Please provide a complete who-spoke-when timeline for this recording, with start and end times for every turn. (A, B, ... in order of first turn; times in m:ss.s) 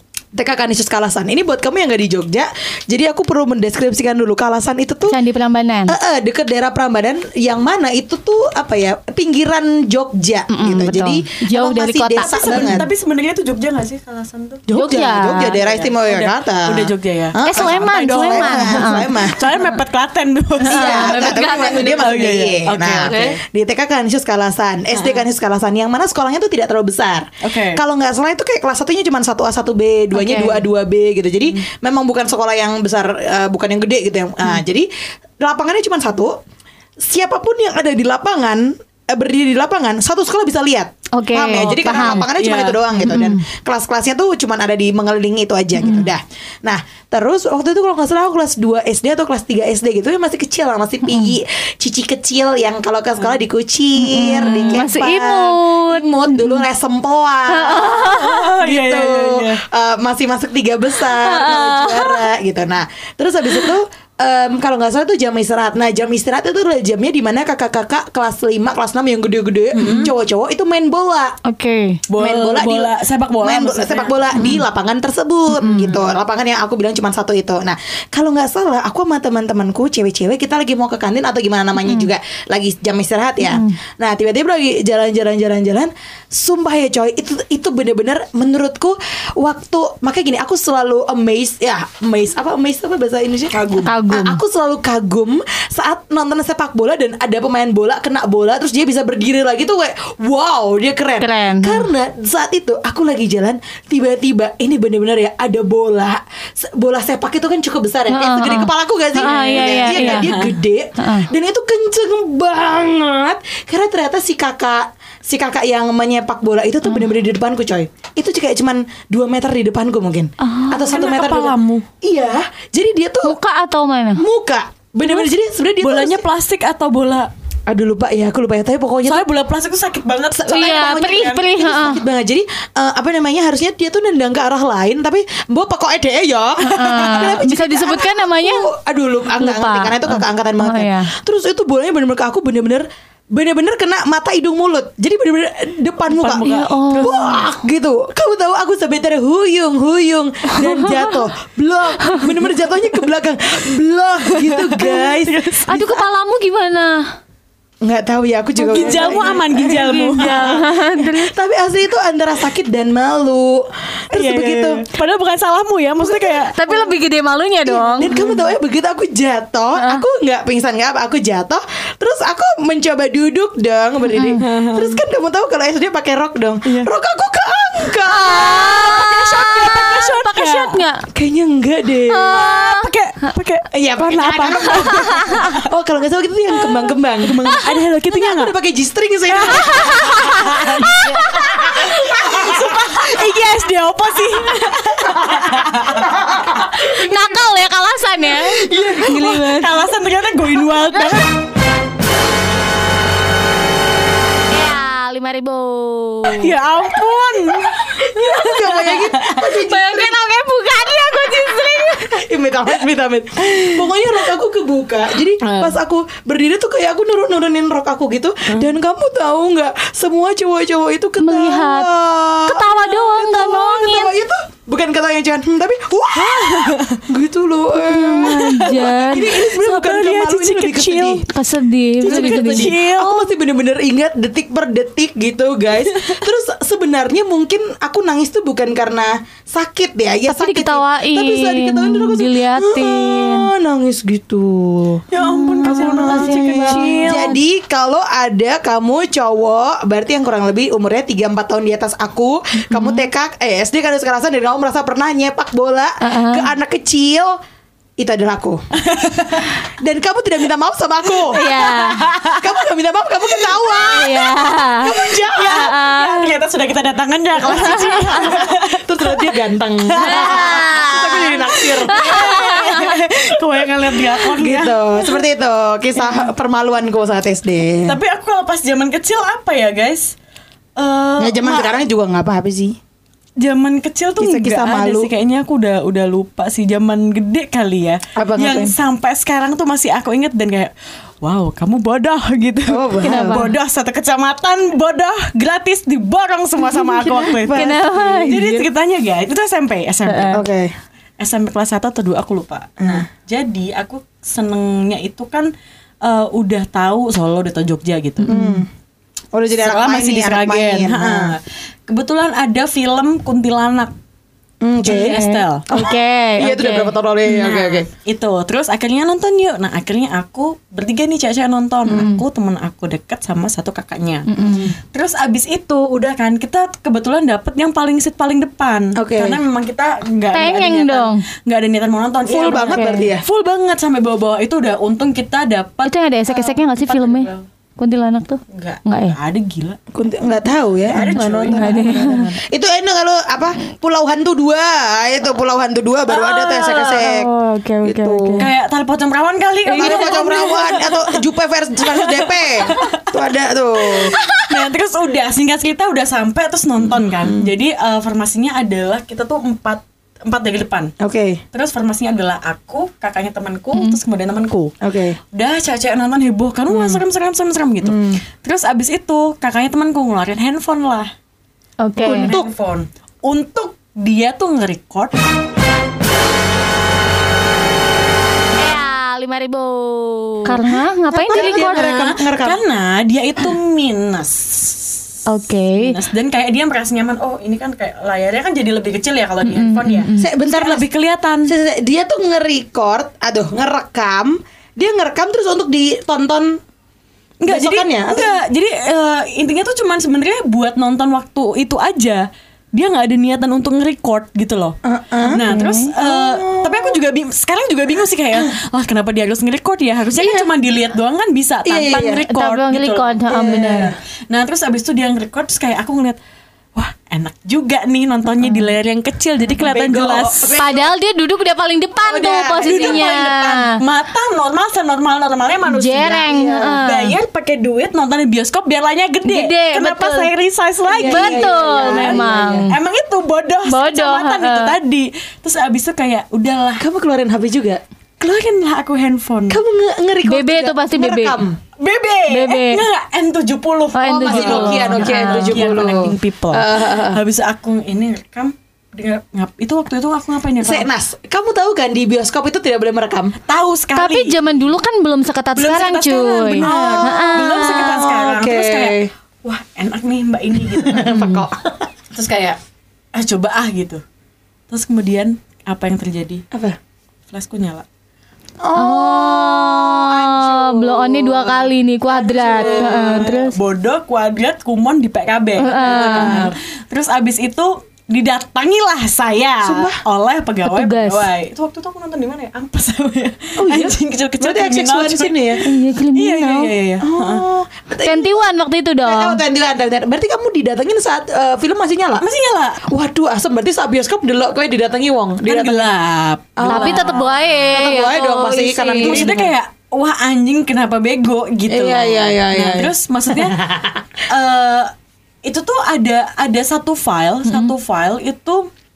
0:00.3-0:05.2 A
0:05.1-0:06.0 B
0:05.9-0:12.9 A
0:10.5-0:12.8 B
0:12.2-0:14.6 C
0:14.7-0:19.6 A
0:14.7-0:15.6 B
0:15.4-0:23.4 C
0:17.4-0:19.6 B
0:20.6-0:34.9 A
0:20.6-0:22.3 B
0:23.0-0:23.4 B
0:24.9-0:25.2 C
0:27.4-0:27.8 C
0:30.1-0:30.6 B
0:35.4-0:36.4 A
0:37.0-1:11.4 A
0:41.1-0:42.3 B
0:41.7-0:42.8 C
0:43.0-0:43.4 B
0:45.8-0:46.1 B
0:54.0-0:56.6 B
0:57.5-0:58.5 B
0:58.2-0:59.6 C
1:01.0-1:02.3 B
1:09.7-1:10.1 B
1:09.8-1:10.1 C
1:11.4-1:12.0 B
1:12.1-1:14.5 C
1:12.1-2:03.4 A
1:14.3-1:14.6 B
1:15.6-1:15.9 B
1:15.8-1:16.0 C
1:21.8-1:22.1 B
1:23.4-1:23.8 B
1:33.5-1:33.9 C
1:33.8-1:34.4 B
1:41.2-1:41.9 B
1:48.1-1:50.3 B
1:49.2-1:50.6 C
1:51.0-1:51.3 B
2:00.4-2:01.0 B
2:00.8-2:01.9 C
2:03.2-2:04.2 B
2:04.2-2:06.2 A
2:05.8-2:07.3 C
2:07.7-2:09.2 A
2:09.0-2:11.4 C
2:10.4-2:12.0 B
2:10.5-2:35.8 A
2:16.7-2:18.7 B
2:17.0-2:17.2 C
2:19.4-2:21.1 B
2:26.1-2:27.5 C
2:26.4-2:27.4 B
2:30.5-2:31.2 B
2:34.3-2:35.9 C
2:34.8-2:35.1 B
2:35.7-2:37.1 B
2:37.8-2:44.8 A
2:38.6-2:41.3 B
2:38.7-2:40.4 C
2:44.1-2:46.9 C
2:46.0-2:46.5 A
2:46.6-2:48.1 B
2:47.6-2:59.1 A
2:48.0-2:48.4 C
2:49.8-2:50.0 B
2:54.1-2:54.4 B
2:54.4-2:55.0 C
2:56.6-2:56.9 C
2:58.0-3:01.0 B
2:58.7-3:00.8 C
3:01.1-3:02.4 A
3:02.1-3:03.3 B
3:02.4-3:05.6 C
3:03.7-3:13.2 A
3:04.6-3:05.6 B
3:07.5-3:08.5 C
3:09.3-3:16.1 C
3:09.4-3:12.1 B
3:15.1-3:17.5 A
3:16.7-3:19.7 B
3:18.6-3:19.6 A
3:18.7-3:21.3 C
3:24.5-3:26.6 B
3:26.2-3:29.5 C
3:28.0-3:30.1 A
3:29.3-3:32.2 B
3:31.6-3:51.2 A
3:33.4-3:34.3 C
3:35.4-3:35.8 C
3:41.2-3:41.9 B
3:42.4-3:44.1 B
3:46.1-3:47.0 C
3:47.8-3:49.4 B
3:48.1-3:51.2 C
3:51.2-3:52.8 B
3:52.0-4:05.0 A
3:52.0-3:53.3 C
4:00.3-4:03.5 B
4:05.1-4:07.4 C
4:05.2-4:07.4 B
4:05.6-4:17.4 A
4:12.7-4:13.0 B
4:16.0-4:16.5 B
4:18.0-4:18.6 A
4:18.8-4:19.5 C
4:19.8-4:25.7 A
4:21.1-4:22.6 C
4:21.3-4:22.0 B
4:23.4-4:24.1 C
4:23.8-4:26.3 B
4:24.8-4:35.2 C
4:27.4-4:38.0 A
4:27.4-4:28.3 B
4:30.0-4:31.0 B
4:31.9-4:33.0 B
4:37.8-4:40.1 C
4:40.8-4:41.8 C
4:41.2-4:42.8 A
4:43.4-5:00.4 C
4:44.2-4:45.1 A
4:48.2-4:48.7 A
4:52.7-4:53.5 A
4:53.0-4:53.5 B
4:56.7-4:58.6 A
4:57.5-4:58.4 B
5:00.1-5:00.4 B
5:00.3-5:00.7 A
5:01.2-5:05.5 C
5:02.8-5:03.1 A
5:06.0-5:08.3 C
5:08.2-5:08.6 B
5:08.2-5:08.7 A
5:09.3-5:11.4 A
5:09.6-5:13.9 C
5:14.6-5:17.9 A
5:14.8-5:15.6 C
5:14.9-5:16.9 B
5:17.2-5:24.3 C
5:21.9-5:22.2 A
5:24.3-5:24.7 B
5:24.4-5:24.7 A
5:24.9-5:37.4 C
5:29.0-5:29.4 A
5:30.3-5:31.2 B
5:32.3-5:33.2 A
5:32.6-5:33.0 B
5:35.8-5:39.2 B
5:38.5-5:39.8 C
5:39.9-5:47.3 A
5:40.8-5:42.3 C
5:41.5-5:42.2 B
5:46.1-5:47.0 C
5:46.3-5:48.5 B
5:47.8-5:48.5 A
5:48.4-5:51.2 C
5:49.7-5:50.5 B
5:49.7-5:54.1 A
5:51.8-5:53.2 C
5:53.9-6:00.9 C
5:54.0-5:54.5 B
5:57.2-5:57.5 A
6:01.0-6:01.4 A
6:01.5-6:04.7 C
6:03.7-6:04.0 B
6:04.8-6:05.2 A
6:05.3-6:11.1 C
6:06.7-6:07.0 A
6:07.8-6:08.2 A
6:11.8-6:12.3 B
6:12.0-6:15.2 C
6:12.0-6:12.5 A
6:18.6-6:22.1 B
6:21.1-6:22.6 A
6:21.2-6:25.0 C
6:25.3-6:26.0 B
6:25.8-6:31.5 C
6:29.4-6:30.3 B
6:30.2-6:30.9 A
6:31.4-6:36.6 A
6:37.4-6:44.8 C
6:37.4-6:38.4 A
6:44.8-6:45.5 A
6:45.3-6:45.9 B
6:45.3-6:56.2 C
6:46.0-6:47.0 A
6:50.2-6:50.5 A
6:51.6-6:52.2 A
6:52.3-6:53.9 B
6:53.3-6:53.9 A
6:56.8-7:00.6 C
6:59.6-7:00.9 A
7:00.6-7:03.8 B
7:02.0-7:16.8 C
7:02.6-7:03.0 A
7:05.7-7:07.1 B
7:06.3-7:06.8 A
7:09.2-7:10.3 B
7:10.9-7:12.7 A
7:10.9-7:12.7 B
7:13.6-7:14.7 B
7:16.8-7:17.8 A
7:18.2-7:19.6 C
7:19.5-7:21.6 A
7:20.2-7:21.4 B
7:21.8-7:30.9 C
7:22.3-7:22.8 B
7:23.9-7:25.7 B
7:24.2-7:27.2 A
7:30.6-7:33.3 A
7:33.5-7:34.4 C
7:33.9-7:38.0 B
7:35.6-7:41.4 C
7:36.6-7:39.1 A
7:40.7-7:42.3 A
7:42.2-7:42.6 C
7:43.1-7:44.0 C
7:44.7-7:46.4 C
7:46.5-7:46.8 A
7:47.3-7:47.8 C
7:48.6-7:53.5 A
7:48.8-7:53.6 B
7:52.2-8:07.4 C
7:55.6-7:56.5 B
7:55.8-7:56.5 A
7:59.6-8:00.0 A
8:00.6-8:01.3 B
8:03.6-8:05.6 A
8:05.6-8:06.7 B
8:07.0-8:08.4 A
8:08.0-8:09.4 B
8:09.0-8:12.3 A
8:12.2-8:12.9 C
8:12.8-8:15.9 A
8:15.4-8:17.2 C
8:16.6-8:19.5 A
8:16.6-8:19.3 B
8:19.0-8:23.6 C
8:21.7-8:24.0 A
8:24.3-8:24.9 C
8:25.4-8:28.7 C
8:27.5-8:27.7 B